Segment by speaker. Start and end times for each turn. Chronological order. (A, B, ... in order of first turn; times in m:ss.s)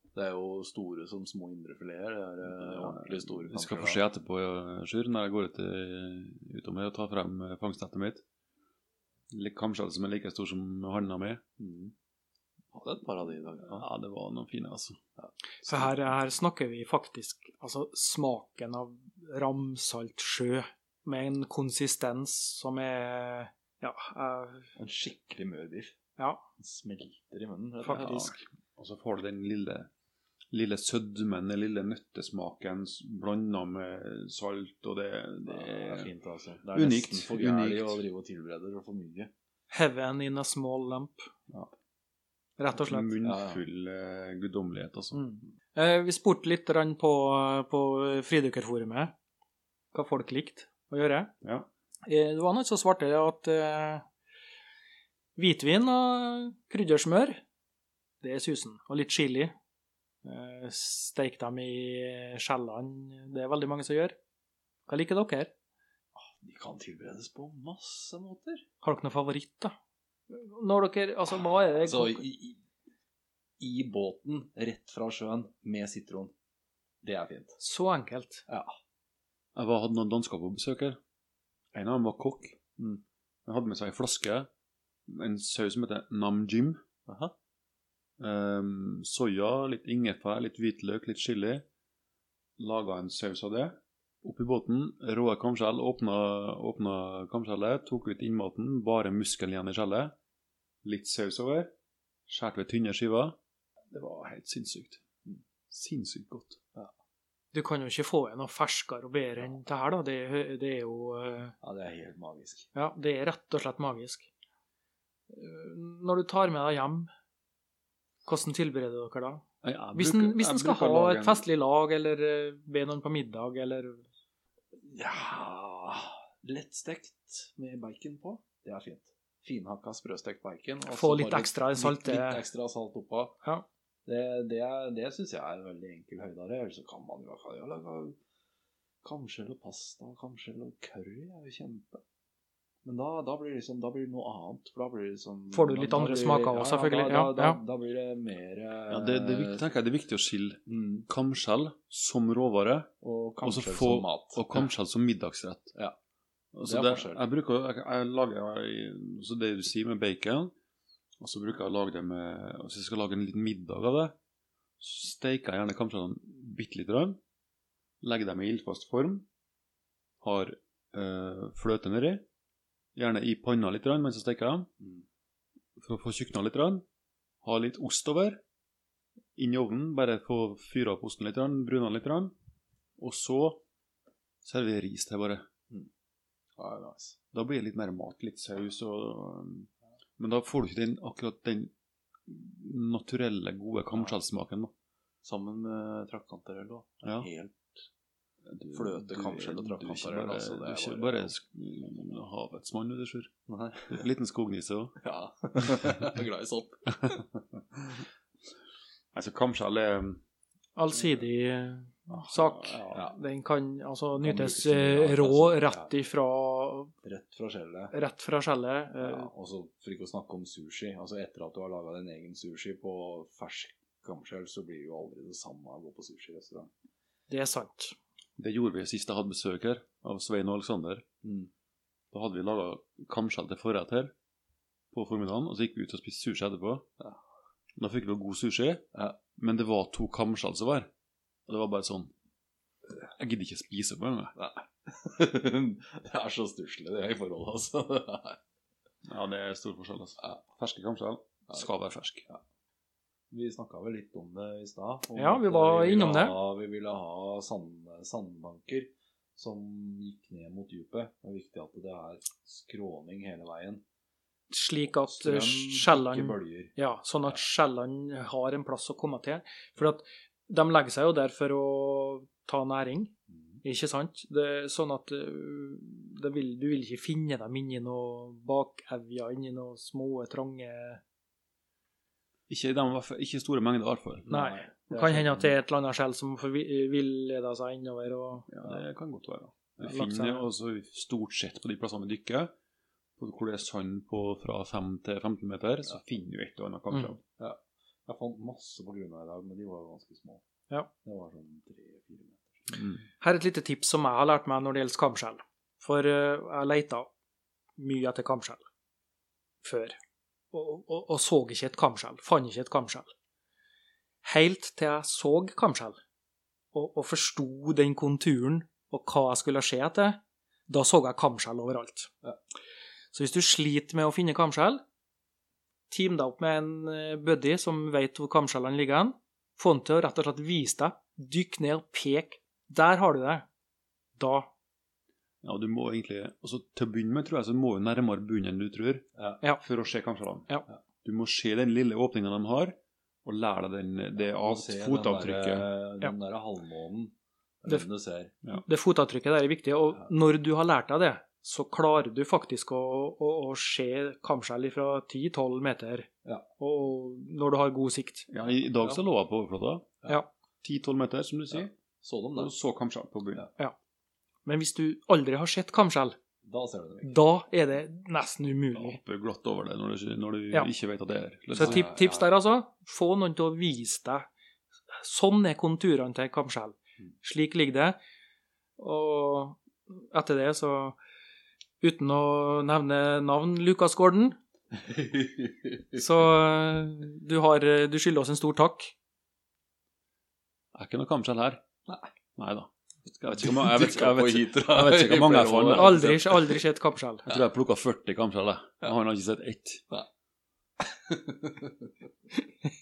0:00.1-0:04.0 A
0:02.6-0:08.2 B
0:09.3-0:11.4 B
0:11.6-0:11.9 A
0:12.7-0:13.9 A
0:13.7-0:15.0 B
0:15.2-0:16.0 A
0:15.6-0:24.7 C
0:24.8-0:25.9 A
0:26.6-0:28.4 A
0:27.9-0:29.9 B
0:30.5-0:36.1 B
0:35.5-0:39.3 A
0:36.7-0:38.0 B
0:39.7-0:41.2 C
0:42.6-0:43.2 C
0:42.7-0:45.2 B
0:43.2-0:43.6 A
0:45.1-0:49.1 C
0:49.9-0:51.3 C
0:51.4-0:51.7 B
0:52.1-0:54.0 C
0:55.4-0:57.4 C
0:58.2-0:59.5 C
1:00.2-1:04.2 C
1:04.9-1:05.5 C
1:06.2-1:08.6 A
1:08.8-1:09.7 C
1:10.3-1:12.2 C
1:11.8-1:12.6 A
1:13.6-1:16.3 A
1:17.0-1:17.6 A
1:17.6-1:18.4 C
1:19.5-1:21.0 B
1:21.7-1:22.6 B
1:23.4-1:24.5 B
1:25.1-1:26.8 B
1:27.1-1:27.3 A
1:28.2-1:31.6 B
1:32.6-1:40.1 B
1:40.8-1:41.7 B
1:42.3-1:43.4 B
1:43.9-1:45.0 B
1:45.7-1:46.6 B
1:47.5-1:51.5 C
1:51.6-1:52.7 A
1:52.8-1:54.3 C
1:55.3-1:57.1 C
1:58.2-1:59.4 C
1:59.6-2:01.4 B
1:59.9-2:04.0 C
2:04.8-2:13.4 A
2:10.8-2:12.4 C
2:14.0-2:18.2 A
2:19.0-2:22.0 A
2:22.8-2:29.6 A
2:25.5-2:27.6 C
2:28.9-2:32.9 B
2:30.7-2:31.0 A
2:33.0-2:34.7 A
2:33.4-2:35.7 B
2:36.5-2:40.5 B
2:36.6-2:37.2 A
2:41.2-2:44.1 B
2:44.8-2:47.2 B
2:48.0-2:49.2 B
2:50.2-2:52.2 B
2:52.9-2:54.7 B
2:55.8-2:56.8 B
2:57.4-2:58.4 B
2:59.4-3:02.4 B
3:03.0-3:03.6 B
3:04.4-3:05.4 B
3:06.6-3:07.2 A
3:07.3-3:11.7 B
3:12.3-3:14.7 B
3:13.9-3:14.2 A
3:15.2-3:17.8 A
3:17.0-3:17.3 B
3:18.4-3:23.3 B
3:18.7-3:21.3 A
3:23.5-3:24.0 A
3:23.9-3:25.0 B
3:25.0-3:27.4 A
3:29.1-3:30.2 B
3:30.8-3:36.9 C
3:32.1-3:33.0 B
3:32.9-3:33.2 A
3:34.2-3:35.9 A
3:37.0-3:37.9 A
3:37.9-3:39.3 C
3:39.0-3:46.7 A
3:47.3-3:48.0 C
3:48.4-3:51.0 B
3:51.2-3:51.5 A
3:52.1-3:54.1 B
3:54.9-3:56.9 B
3:57.8-4:00.9 B
4:01.5-4:02.1 B
4:03.2-4:04.4 B
4:04.4-4:08.4 A
4:09.0-4:12.3 B
4:13.3-4:23.8 A
4:15.1-4:16.4 C
4:24.5-4:33.1 C
4:24.9-4:27.4 A
4:33.3-4:33.6 A
4:33.6-4:41.0 C
4:42.5-4:44.3 B
4:44.2-4:45.5 A
4:44.3-4:48.5 C
4:48.5-4:52.5 B
4:49.8-4:50.5 C
4:53.2-4:57.2 B
4:57.4-5:00.4 A
5:01.0-5:02.8 A
5:02.7-5:03.0 B
5:03.2-5:07.1 C
5:07.8-5:08.6 C
5:09.6-5:09.9 C
5:10.5-5:13.1 C
5:14.2-5:16.0 C
5:16.7-5:22.1 C
5:23.1-5:24.8 C
5:25.9-5:33.4 C
5:34.2-5:34.5 C
5:35.4-5:39.1 B
5:39.2-5:39.4 A
5:39.6-5:40.5 B
5:41.0-5:45.6 B
5:44.2-5:48.3 A
5:48.6-5:58.3 C
5:58.3-6:00.0 B
6:00.6-6:01.7 B
6:01.5-6:02.5 A
6:02.3-6:03.4 B
6:04.4-6:06.2 C
6:06.4-6:07.1 A
6:07.0-6:09.0 C
6:08.7-6:11.9 B
6:11.5-6:12.3 A
6:11.6-6:14.3 C
6:15.0-6:18.0 C
6:18.8-6:21.0 C
6:21.8-6:24.4 C
6:24.9-6:25.8 A
6:25.9-6:28.9 C
6:30.7-6:31.6 B
6:32.4-6:36.0 B
6:33.2-6:36.6 A
6:35.7-6:37.2 C
6:37.3-6:39.8 B
6:41.1-6:41.9 A